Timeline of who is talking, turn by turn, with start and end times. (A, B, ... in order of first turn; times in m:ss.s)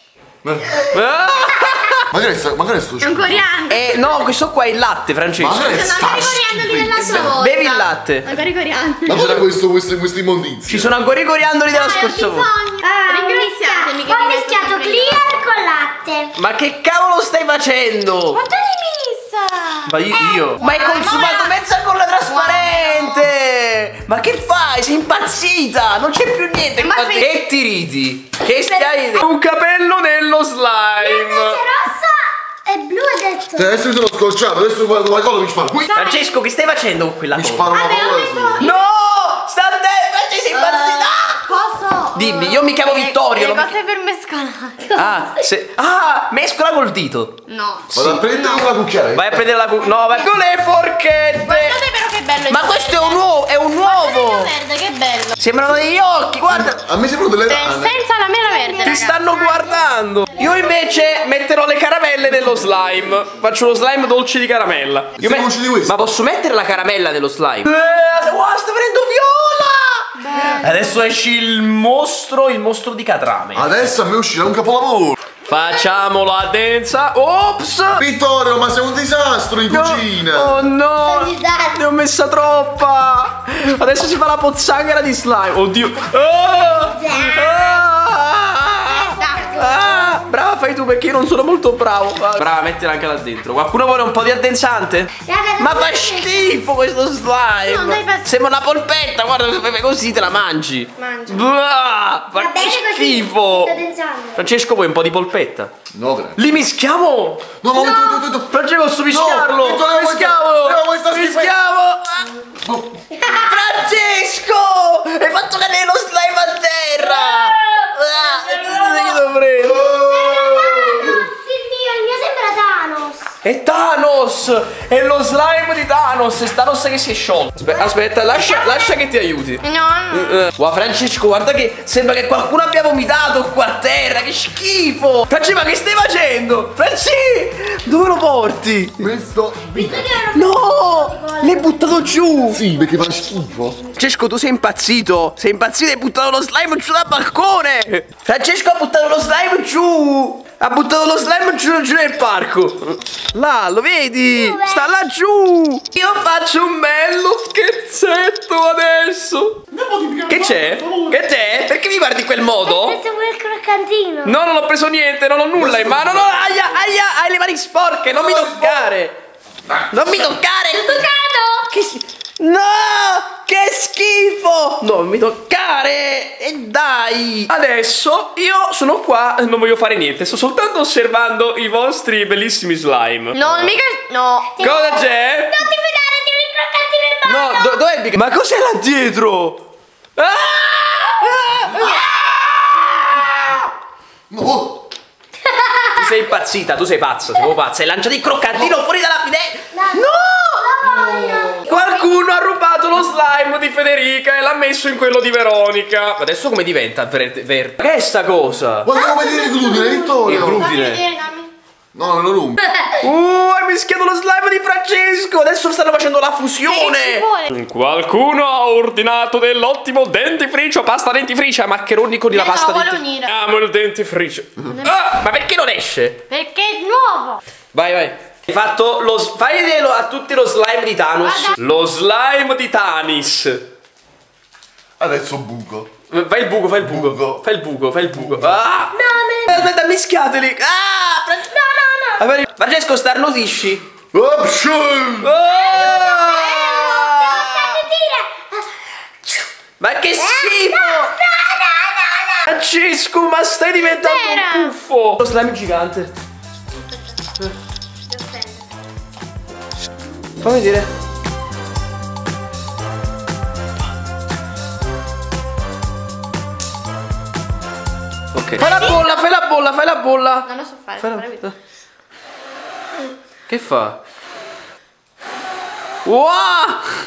0:00.4-0:00.8 A
0:00.9-0:02.1 B
0:01.5-0:02.0 C
0:02.1-0:03.4 A
0:03.0-0:04.2 D
0:03.7-0:05.8 B
0:05.4-0:07.4 A
0:05.6-0:09.2 D
0:07.0-0:08.3 B
0:09.1-0:10.9 A
0:09.1-0:09.4 B
0:10.7-0:12.5 B
0:11.7-0:15.2 D
0:12.8-0:16.3 C
0:16.3-0:18.4 B
0:18.3-0:21.6 D
0:19.9-0:31.6 B
0:22.2-0:23.3 D
0:26.8-0:27.4 D
0:28.7-0:29.2 D
0:31.0-0:33.8 C
0:33.5-0:35.9 A
0:35.8-0:36.4 D
0:35.9-0:37.7 B
0:37.3-0:38.7 A
0:37.7-0:38.7 D
0:37.7-0:38.4 C
0:38.6-0:41.4 B
0:41.4-0:45.1 D
0:42.1-0:43.8 B
0:44.9-0:47.4 B
0:47.5-0:48.7 D
0:47.9-0:49.5 A
0:49.1-0:51.8 B
0:51.3-0:55.4 D
0:52.5-0:54.5 B
0:55.4-0:56.8 B
0:56.5-0:58.0 A
0:57.5-0:59.2 D
0:58.4-0:59.9 C
0:58.8-1:13.8 B
1:00.4-1:00.8 C
1:05.2-1:06.0 A
1:10.2-1:10.9 D
1:13.6-1:15.2 A
1:15.4-1:18.0 B
1:18.0-1:20.6 A
1:19.7-1:43.8 B
1:21.0-1:21.8 C
1:26.7-1:27.8 C
1:28.8-1:30.3 C
1:29.1-1:29.6 D
1:35.2-1:36.6 C
1:37.6-1:38.3 D
1:41.0-1:41.5 D
1:42.3-1:44.5 C
1:44.3-1:45.7 B
1:45.9-1:46.4 A
1:46.4-1:47.5 B
1:47.6-1:48.5 A
1:47.7-1:48.2 C
1:48.4-1:52.4 B
1:49.1-1:51.6 A
1:52.6-1:53.0 A
1:53.2-1:53.5 C
1:53.2-1:59.9 B
1:57.2-1:57.6 C
1:58.4-1:59.2 C
1:59.6-2:01.2 A
1:59.8-2:03.3 C
2:03.4-2:19.1 B
2:09.6-2:10.4 D
2:19.0-2:20.1 A
2:19.7-2:22.8 C
2:20.3-2:22.6 B
2:22.5-2:23.8 A
2:23.9-2:39.7 B
2:34.3-2:35.0 C
2:39.7-2:41.2 A
2:40.3-2:43.0 B
2:42.6-2:44.4 C
2:44.2-2:49.2 B
2:45.6-2:46.7 A
2:48.1-2:48.9 A
2:49.7-2:50.1 A
2:49.9-2:51.1 B
2:50.7-2:51.7 C
2:51.7-3:03.5 B
3:03.3-3:04.7 D
3:04.5-3:07.8 C
3:04.6-3:05.6 B
3:07.2-3:13.7 B
3:11.8-3:12.0 A
3:14.3-3:14.8 A
3:15.4-3:16.1 C
3:15.9-3:20.7 B
3:19.7-3:22.2 C
3:20.9-3:21.5 A
3:21.6-3:28.9 B
3:28.8-3:30.7 A
3:28.9-3:31.5 D
3:29.0-3:30.2 C
3:30.2-3:31.0 B
3:31.9-3:32.6 A
3:33.0-3:46.2 B
3:36.6-3:37.5 D
3:42.3-3:43.3 D
3:44.7-3:45.0 D
3:46.3-3:47.4 D
3:47.7-3:53.6 B
3:51.2-3:51.6 D
3:55.0-3:55.9 A
3:56.1-4:01.6 B
3:56.8-3:57.4 A
3:58.1-3:58.6 A
3:58.9-3:59.7 C
4:01.5-4:02.3 C
4:02.2-4:03.9 B
4:04.1-4:05.3 A
4:05.2-4:07.8 B
4:05.4-4:08.7 C
4:09.8-4:11.1 B
4:10.2-4:12.5 C
4:12.4-4:16.1 B
4:13.8-4:14.8 D
4:18.1-4:18.4 C
4:20.4-4:20.9 B
4:28.3-4:30.5 B
4:28.6-4:29.2 D
4:30.4-4:31.5 D
4:31.0-4:31.6 B
4:33.5-4:34.0 B
4:36.0-4:36.8 B